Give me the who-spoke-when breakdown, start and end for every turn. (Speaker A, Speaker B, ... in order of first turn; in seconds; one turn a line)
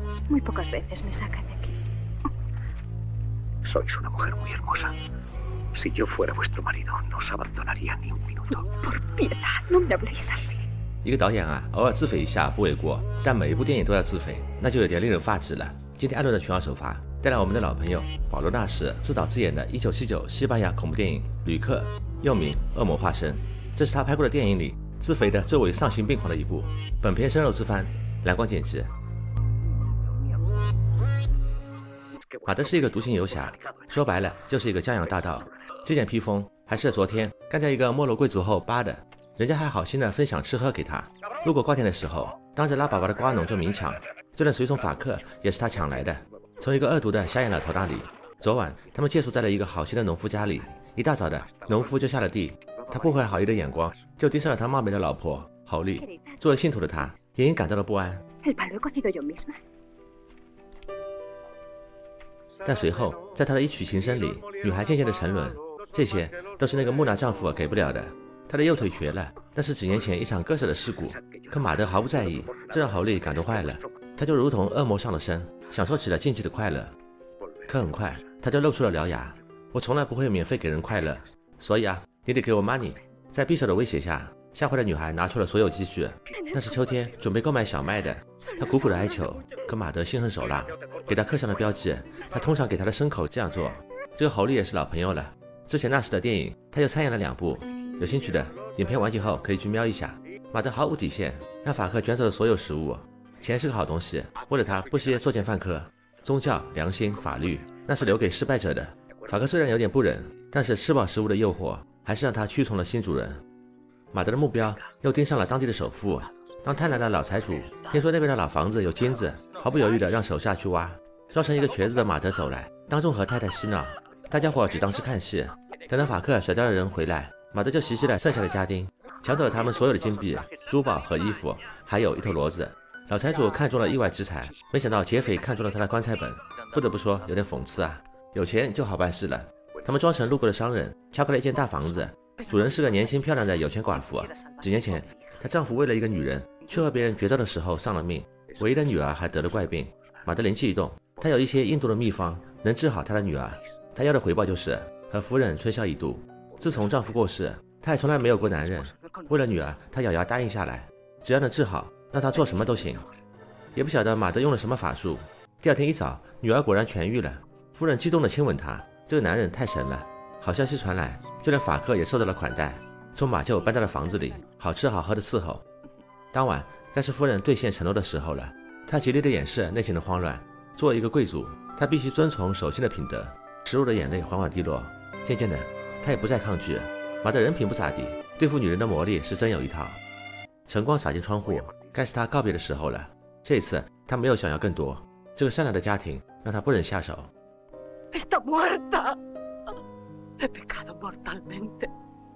Speaker A: 0.3-1.8
Speaker B: 3.6-4.9
Speaker B: 5.7-8.4
Speaker A: 8.5-10.6
Speaker C: 11.0-28.9
Speaker C: 32.5-58.2
Speaker A: 55.9-57.1
Speaker A: 58.4-59.6
Speaker C: 62.6-76.9
Speaker C: 77.7-113.4
Speaker A: 86.4-86.6
Speaker A: 88.4-88.7
Speaker C: 114.1-163.1
Speaker C: 163.7-175.6
Speaker C: 176.3-190.0
Speaker C: 190.7-197.3
Speaker A: 198.1-199.2
Speaker A: 200.4-201.9